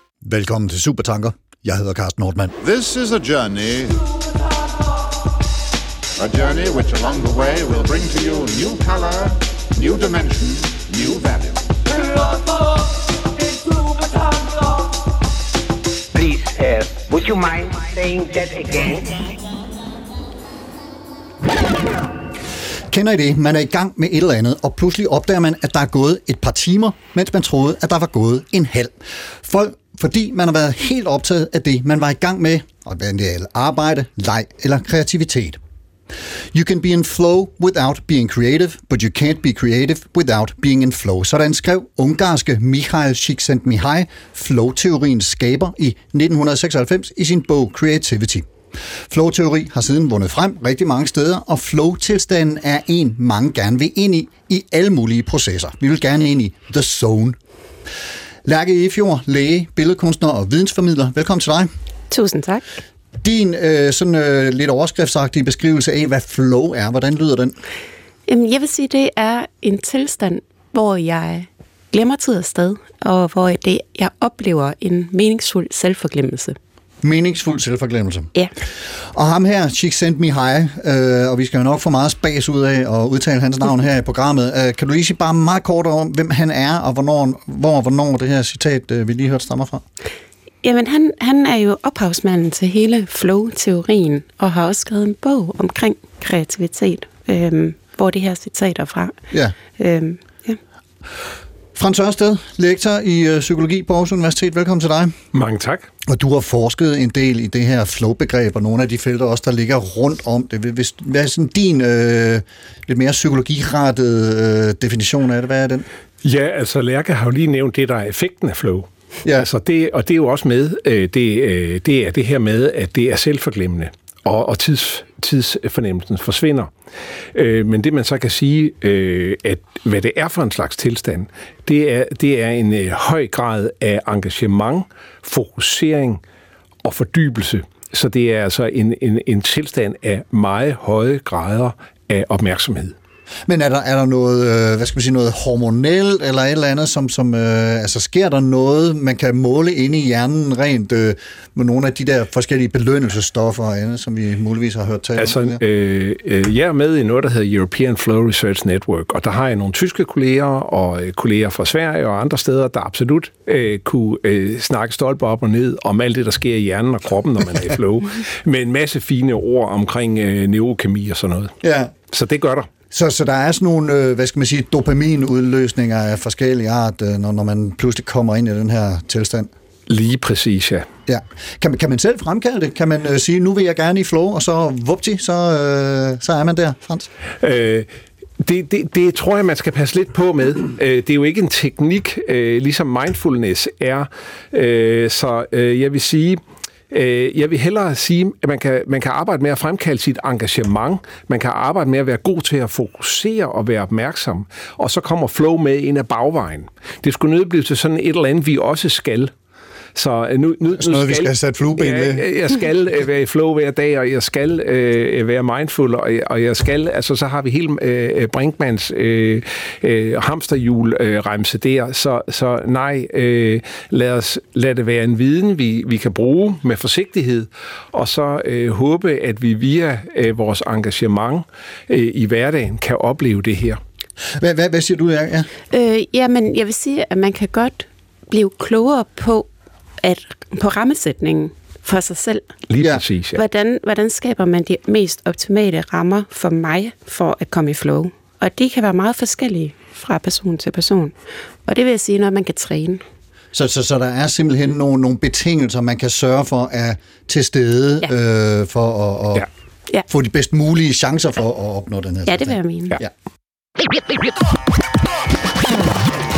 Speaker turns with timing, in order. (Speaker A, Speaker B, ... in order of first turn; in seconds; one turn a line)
Speaker A: 0.2-2.5
Speaker B: 2.6-4.1
Speaker B: 6.2-11.7
Speaker C: 16.1-19.3
Speaker A: 22.9-35.6
Speaker A: 36.5-48.5
Speaker A: 49.1-57.4
Speaker A: 58.4-61.7
Speaker D: 62.1-62.6
Speaker A: 63.2-67.5
Speaker D: 68.3-76.6
Speaker A: 77.0-78.3
Speaker A: 79.0-89.8
Speaker D: 90.6-99.2
Speaker D: 99.8-100.6
Speaker A: 101.7-105.1
Speaker E: 105.3-105.9
Speaker A: 106.1-115.8
Speaker E: 116.2-126.7
Speaker E: 127.3-136.2
Speaker E: 136.8-142.9
Speaker A: 143.5-155.6
Speaker E: 155.2-171.5
Speaker A: 171.6-171.9
Speaker E: 172.1-172.7
Speaker A: 172.9-179.5
Speaker E: 179.9-180.9
Speaker A: 181.1-187.1
Speaker E: 187.4-187.9
Speaker E: 188.4-196.4
Speaker E: 196.9-209.3
Speaker E: 209.9-233.8
Speaker A: 210.8-212.2
Speaker A: 234.4-235.5
Speaker D: 235.7-239.5
Speaker D: 240.0-242.5
Speaker E: 242.7-243.4
Speaker D: 243.3-251.1
Speaker D: 251.7-253.0
Speaker A: 253.5-259.5
Speaker A: 260.1-263.1
Speaker D: 262.3-263.0